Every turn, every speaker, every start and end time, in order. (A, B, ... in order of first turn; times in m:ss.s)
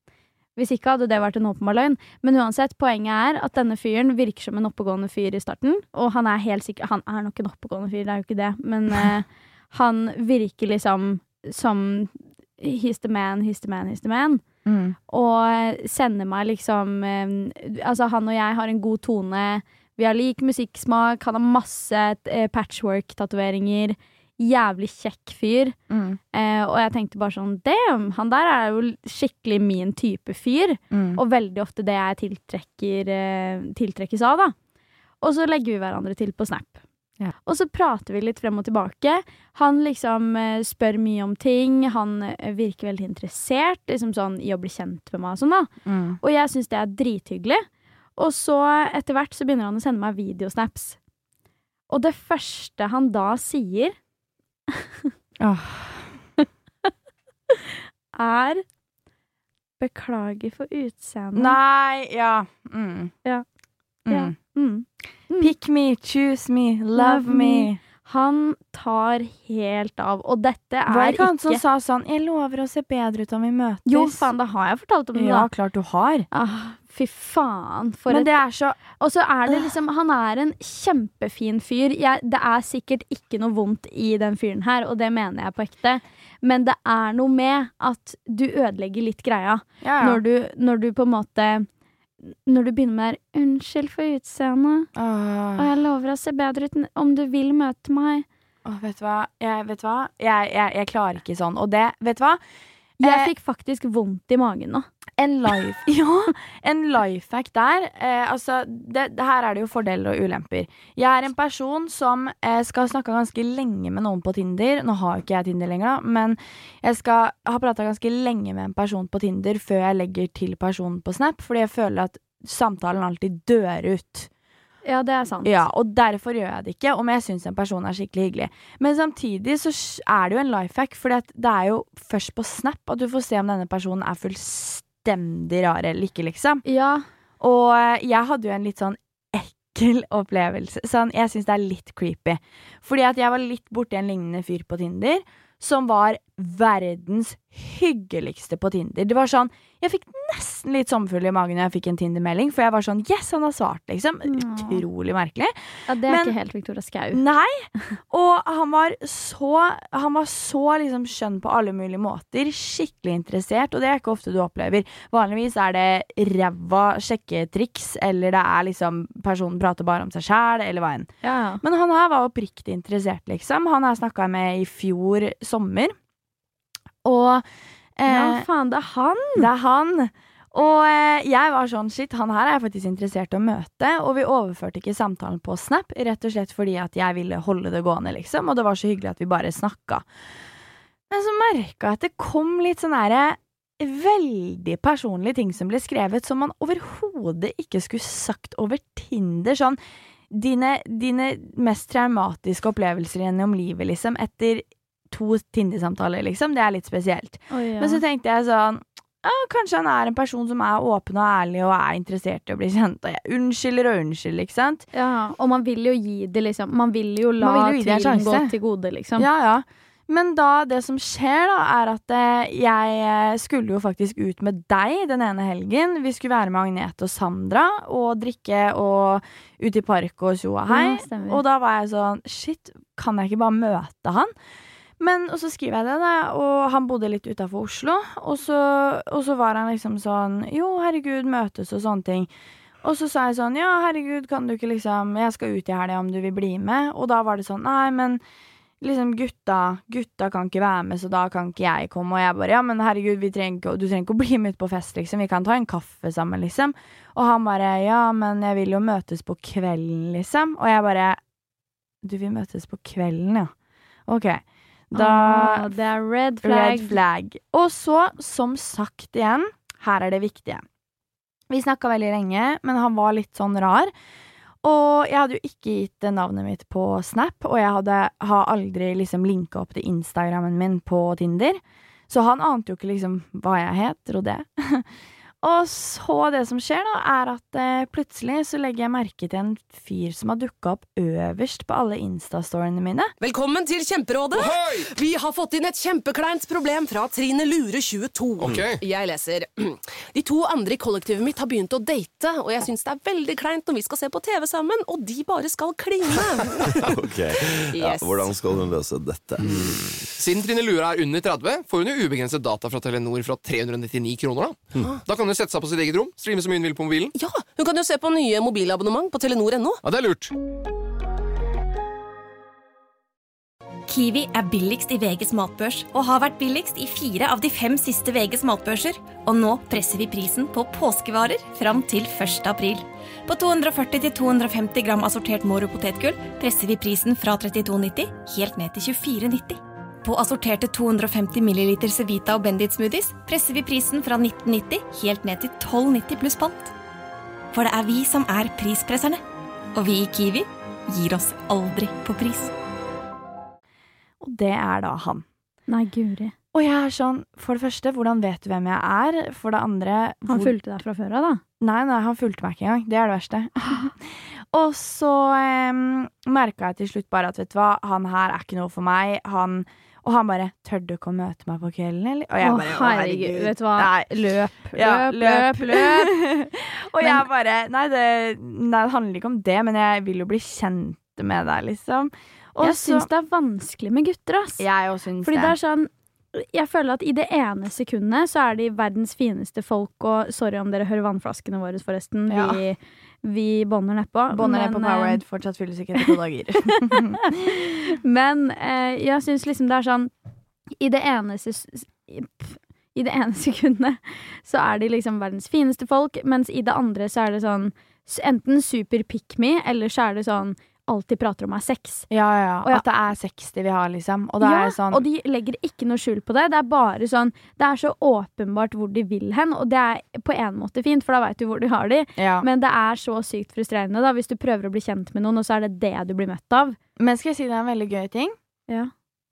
0:00.6-0:14.4 A
0:14.6-0:15.0 B
0:15.1-0:25.8 A
0:25.9-0:26.2 B
0:26.3-0:34.5 A
0:30.9-0:31.2 B
0:35.2-0:36.8 A
0:37.4-0:45.7 A
0:45.8-0:46.2 B
0:46.2-0:47.6 A
0:48.2-0:51.0 A
0:51.9-0:53.9 A
0:54.7-0:55.1 A
0:55.4-0:56.2 B
0:57.5-0:58.6 A
0:59.8-1:01.6 A
1:01.3-1:03.1 B
1:04.0-1:04.4 B
1:04.1-1:05.5 A
1:05.4-1:07.8 B
1:07.0-1:11.6 A
1:10.9-1:14.2 B
1:13.8-1:15.5 A
1:15.1-1:16.3 B
1:16.3-1:18.3 A
1:18.1-1:18.8 B
1:18.9-1:31.7 A
1:29.8-1:30.2 B
1:32.3-1:34.9 A
1:34.9-1:35.7 B
1:35.6-1:38.2 A
1:38.6-1:42.4 B
1:43.0-1:44.9 A
1:43.0-1:43.3 B
1:45.2-2:04.3 B
2:04.8-2:05.6 A
2:05.4-2:16.6 B
2:16.6-2:17.0 A
2:17.4-2:35.5 B
2:34.3-2:34.8 A
2:35.9-2:37.2 A
2:36.0-2:36.3 B
2:37.1-2:51.1 B
2:51.2-2:51.6 A
2:51.6-2:55.9 B
2:57.0-2:57.4 B
2:58.0-2:58.4 B
2:58.1-2:59.5 A
2:59.4-3:10.0 B
3:11.1-3:19.8 B
3:20.3-3:34.8 B
3:27.5-3:28.0 A
3:34.9-3:39.3 A
3:37.4-3:38.5 B
3:39.2-3:54.3 B
3:50.7-3:51.4 A
3:55.0-4:02.3 B
4:02.8-4:08.2 B
4:08.8-4:21.2 B
4:22.0-4:23.5 B
4:24.1-4:25.7 B
4:24.9-4:27.0 A
4:26.4-4:30.6 B
4:31.5-4:33.9 B
4:34.6-4:44.9 B
4:45.4-4:53.1 B
4:53.2-5:06.8 C
4:54.3-4:54.9 D
4:58.4-4:58.8 D
5:06.8-5:10.1 E
5:07.7-5:08.3 C
5:10.2-5:17.1 D
5:17.1-5:19.8 C
5:19.8-5:20.3 D
5:23.9-5:46.7 F
5:47.5-5:49.2 F
5:49.7-5:52.5 F
5:54.2-5:55.2 B
5:55.7-5:56.3 A
5:56.5-6:00.5 B
6:00.3-6:01.4 A
6:01.6-6:14.1 B
6:12.4-6:16.2 A
6:14.7-6:23.1 B
6:17.0-6:17.2 A
6:22.6-6:24.6 A
6:24.6-6:25.5 B
6:25.2-6:35.2 A
6:32.3-6:32.6 B
6:34.3-6:37.6 B
6:36.9-6:40.1 A
6:40.8-6:52.1 A
6:52.1-6:55.0 B
6:54.4-7:06.8 A
7:02.2-7:02.5 B
7:07.0-7:08.3 B